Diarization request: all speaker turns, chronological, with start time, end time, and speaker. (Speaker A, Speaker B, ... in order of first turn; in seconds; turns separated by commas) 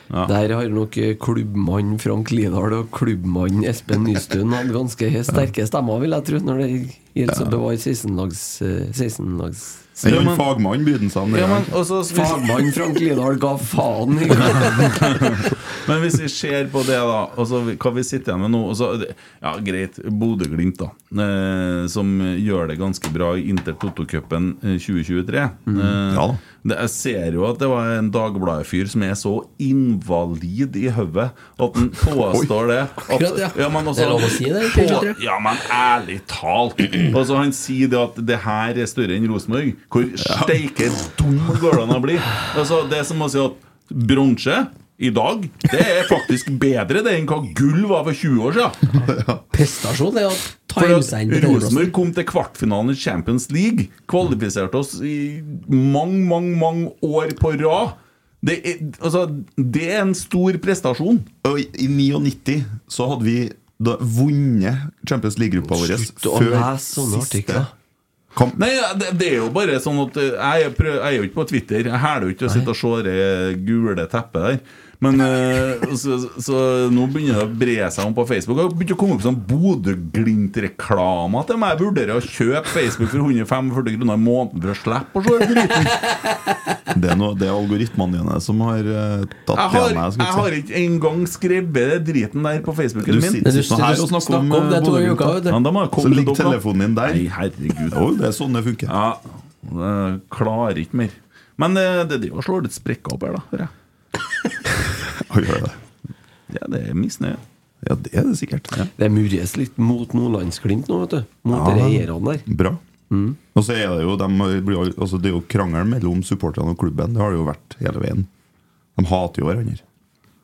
Speaker A: 0.3-10.3, Speaker B: 7.3-7.6, Speaker B: 10.0-11.8, Speaker C: 10.1-10.4, Speaker C: 11.3-12.6, Speaker A: 12.1-15.1, Speaker C: 14.8-48.9, Speaker A: 25.7-25.9, Speaker B: 26.1-26.4, Speaker D: 33.1-35.2, Speaker B: 40.2-40.5, Speaker B: 49.0-49.4, Speaker D: 49.5-51.9, Speaker C: 50.8-61.3, Speaker B: 61.4-67.7, Speaker A: 65.7-67.7, Speaker B: 68.3-68.6, Speaker C: 68.5-86.1, Speaker D: 86.1-86.3, Speaker B: 86.9-90.5, Speaker C: 89.5-93.4, Speaker B: 93.0-95.4, Speaker D: 93.4-95.6, Speaker C: 95.5-98.0, Speaker B: 96.0-97.3, Speaker B: 97.8-98.9, Speaker C: 98.9-103.7, Speaker B: 105.0-105.8, Speaker C: 106.5-107.4, Speaker B: 107.8-108.9, Speaker A: 109.0-112.5, Speaker B: 111.5-112.8, Speaker A: 113.1-113.4, Speaker B: 113.5-118.3, Speaker B: 119.0-119.8